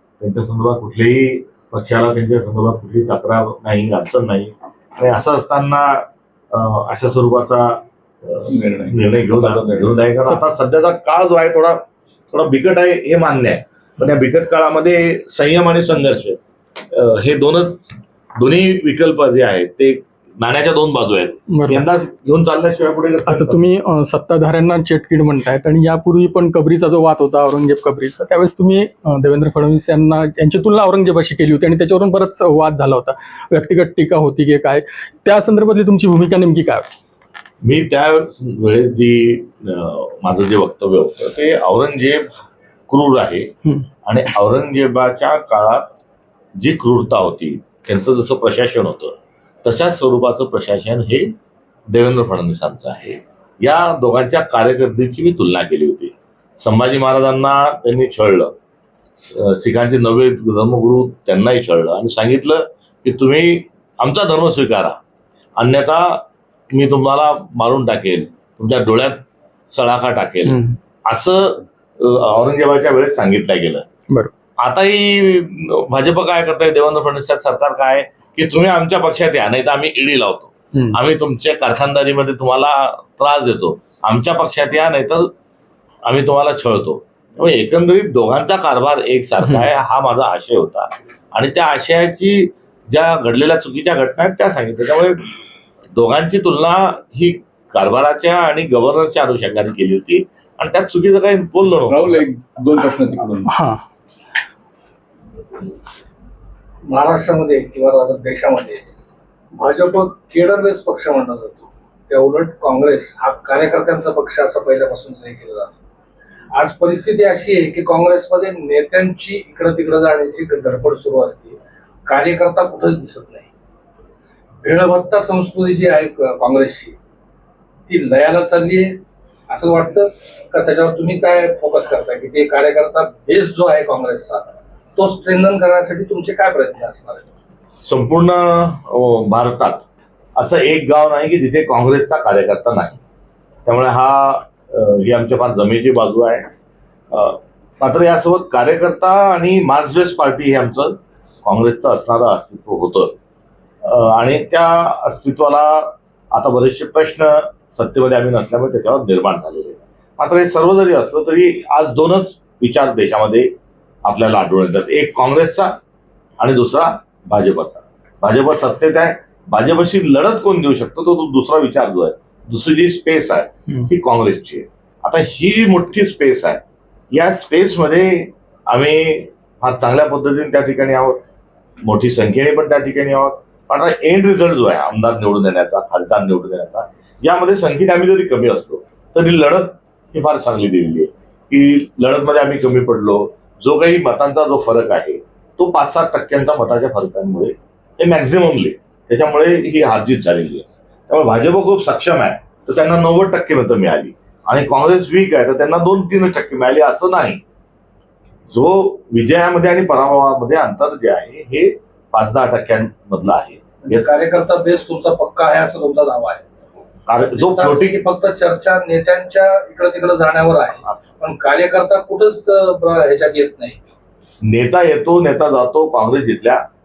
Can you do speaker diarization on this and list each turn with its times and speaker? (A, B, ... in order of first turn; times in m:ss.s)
0:00.2-0:16.4 A
0:08.5-0:10.0 B
0:16.9-0:17.8 A
0:18.4-0:23.6 A
0:21.5-0:21.8 C
0:23.3-0:36.9 C
0:37.6-0:42.3 A
0:42.9-0:43.5 A
0:44.0-0:45.9 A
0:46.6-0:51.4 A
0:51.9-0:58.6 A
0:59.3-1:05.0 A
1:05.6-1:13.8 A
1:10.5-1:10.8 C
1:14.6-1:25.3 A
1:26.0-1:35.2 A
1:35.9-1:42.2 A
1:41.9-1:43.5 B
1:43.5-1:43.8 C
1:46.9-1:48.8 D
1:49.6-1:55.7 D
1:56.5-2:03.5 D
2:04.6-2:07.0 D
2:07.9-2:09.0 D
2:09.5-2:17.3 D
2:17.8-2:19.8 A
2:20.4-2:23.0 A
2:23.6-2:26.5 A
2:27.1-2:33.2 A
2:33.8-2:43.5 A
2:44.0-2:45.8 A
2:46.4-3:01.2 A
3:01.8-3:27.4 A
3:28.5-3:34.1 A
3:33.8-3:36.4 D
3:37.1-3:38.0 A
3:37.3-3:43.8 D
3:44.4-3:46.6 A